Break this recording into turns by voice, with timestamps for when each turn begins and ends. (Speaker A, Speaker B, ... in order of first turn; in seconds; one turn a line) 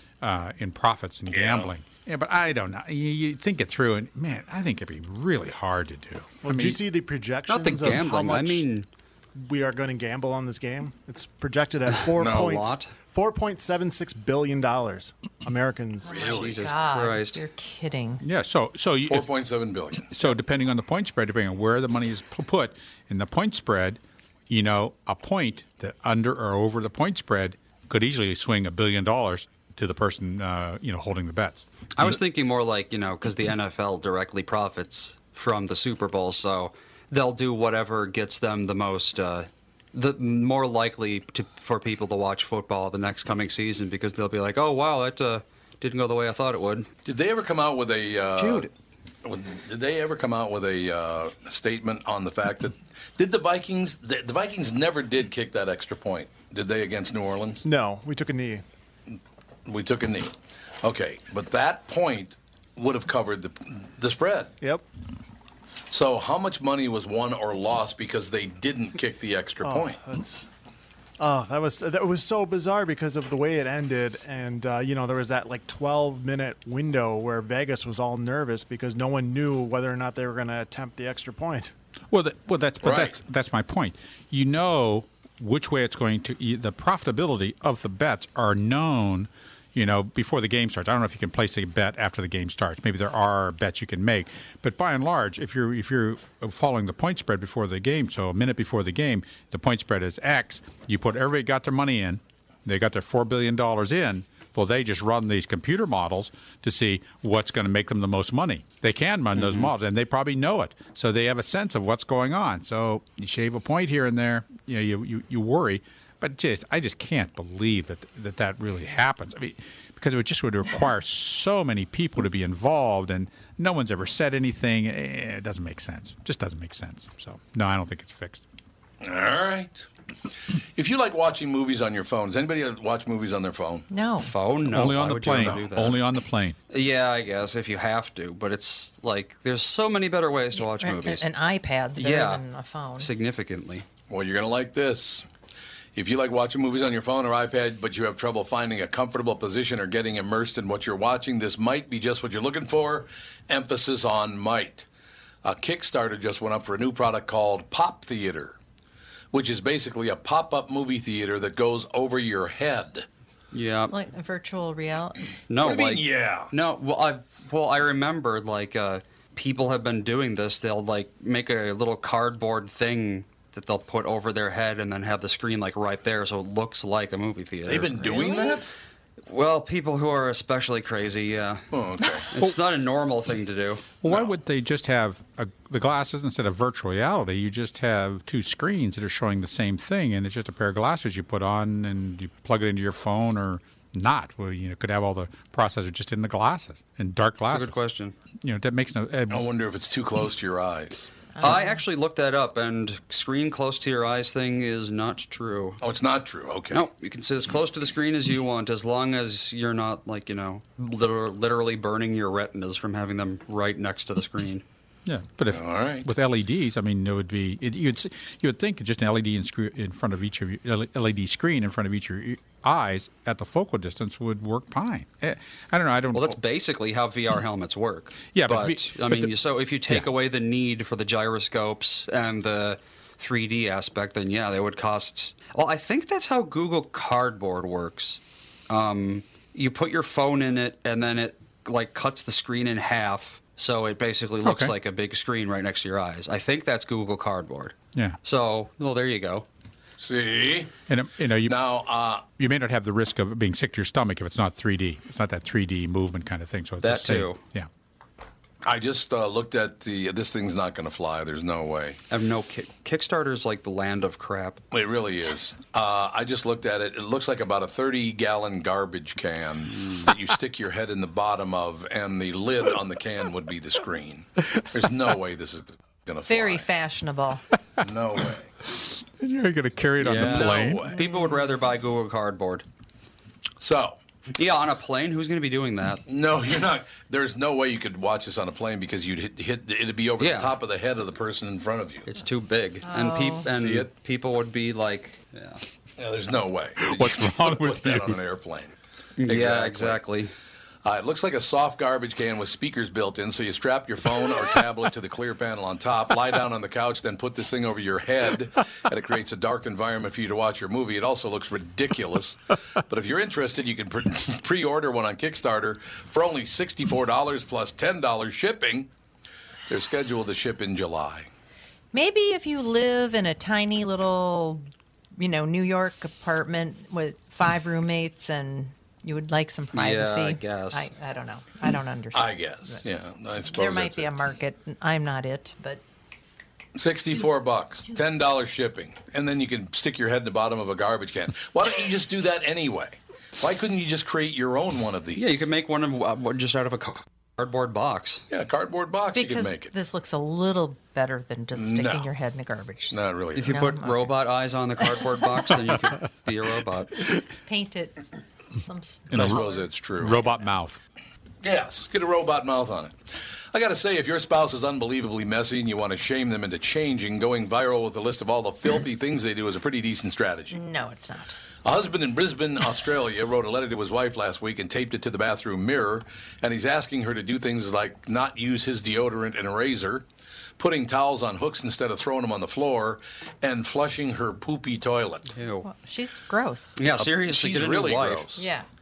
Speaker A: 0.2-6.8
Speaker B: 1.3-1.7
Speaker C: 6.4-8.7
Speaker D: 7.5-8.8
Speaker C: 9.3-16.1
Speaker D: 12.1-12.9
Speaker E: 16.1-18.2
Speaker B: 16.1-16.7
Speaker D: 16.2-17.4
Speaker A: 18.2-19.3
Speaker B: 19.0-20.1
Speaker A: 20.1-31.6
Speaker D: 31.9-46.9
Speaker B: 47.0-48.7
Speaker D: 48.4-48.7
Speaker B: 49.2-57.6
Speaker C: 57.6-58.6
Speaker B: 59.6-64.5
Speaker B: 65.9-70.0
Speaker C: 69.6-70.5
Speaker C: 71.2-81.7
Speaker A: 82.1-128.4
Speaker B: 82.8-83.2
Speaker D: 109.3-109.7
Speaker B: 129.0-129.8
Speaker B: 130.7-133.9
Speaker E: 133.9-134.3
Speaker D: 134.2-136.0
Speaker A: 134.7-136.6
Speaker B: 135.3-135.7
Speaker D: 136.7-141.2
Speaker E: 140.6-143.1
Speaker D: 142.0-142.4
Speaker D: 143.0-143.8
Speaker B: 144.1-145.3
Speaker B: 145.9-154.9
Speaker B: 155.4-158.6
Speaker B: 159.3-163.1
Speaker D: 163.5-163.9
Speaker E: 163.9-165.2
Speaker D: 165.5-178.6
Speaker B: 165.6-166.5
Speaker B: 177.7-178.7
Speaker D: 179.3-181.7
Speaker B: 181.7-182.3
Speaker D: 182.3-183.9
Speaker A: 184.0-197.8
Speaker B: 184.0-184.3
Speaker D: 197.5-198.1
Speaker A: 198.4-199.4
Speaker B: 199.3-201.1
Speaker E: 201.3-201.8
Speaker D: 201.4-205.8
Speaker B: 205.8-206.8
Speaker D: 206.7-214.6
Speaker A: 215.1-226.4
Speaker B: 215.5-216.1
Speaker D: 226.1-249.4
Speaker A: 228.3-229.3
Speaker A: 244.4-244.7
Speaker B: 250.0-250.7
Speaker A: 250.9-251.6
Speaker B: 251.4-252.3
Speaker A: 252.4-257.7
Speaker D: 256.8-257.4
Speaker B: 258.6-262.0
Speaker D: 262.1-264.6
Speaker B: 264.7-276.7
Speaker E: 276.3-277.4
Speaker B: 277.8-278.5
Speaker A: 278.8-280.9
Speaker D: 280.0-282.6
Speaker B: 280.1-281.0
Speaker E: 280.9-281.5
Speaker B: 283.6-284.0
Speaker D: 284.4-286.0
Speaker B: 286.1-292.1
Speaker D: 290.2-290.6
Speaker D: 292.1-295.6
Speaker E: 292.8-293.5
Speaker B: 293.5-293.9
Speaker B: 296.0-300.0
Speaker A: 296.8-298.2
Speaker D: 299.2-300.3
Speaker B: 300.8-318.9
Speaker B: 319.7-321.3
Speaker E: 321.9-332.8
Speaker D: 329.7-330.9
Speaker B: 332.1-334.1
Speaker E: 333.5-335.8
Speaker B: 336.8-345.4
Speaker D: 345.1-348.2
Speaker B: 348.3-349.7
Speaker E: 349.1-354.1
Speaker B: 351.5-352.1
Speaker B: 352.9-353.6
Speaker D: 353.3-357.0
Speaker E: 357.4-358.0
Speaker E: 358.5-359.7
Speaker A: 359.1-359.4
Speaker B: 359.1-360.2
Speaker A: 360.0-360.8
Speaker B: 361.4-362.9
Speaker B: 363.5-370.6
Speaker E: 370.5-371.4
Speaker B: 371.6-380.1
Speaker B: 380.6-385.3
Speaker D: 385.4-385.7
Speaker E: 385.6-386.8
Speaker D: 386.8-388.3
Speaker B: 386.9-388.5
Speaker E: 388.4-388.6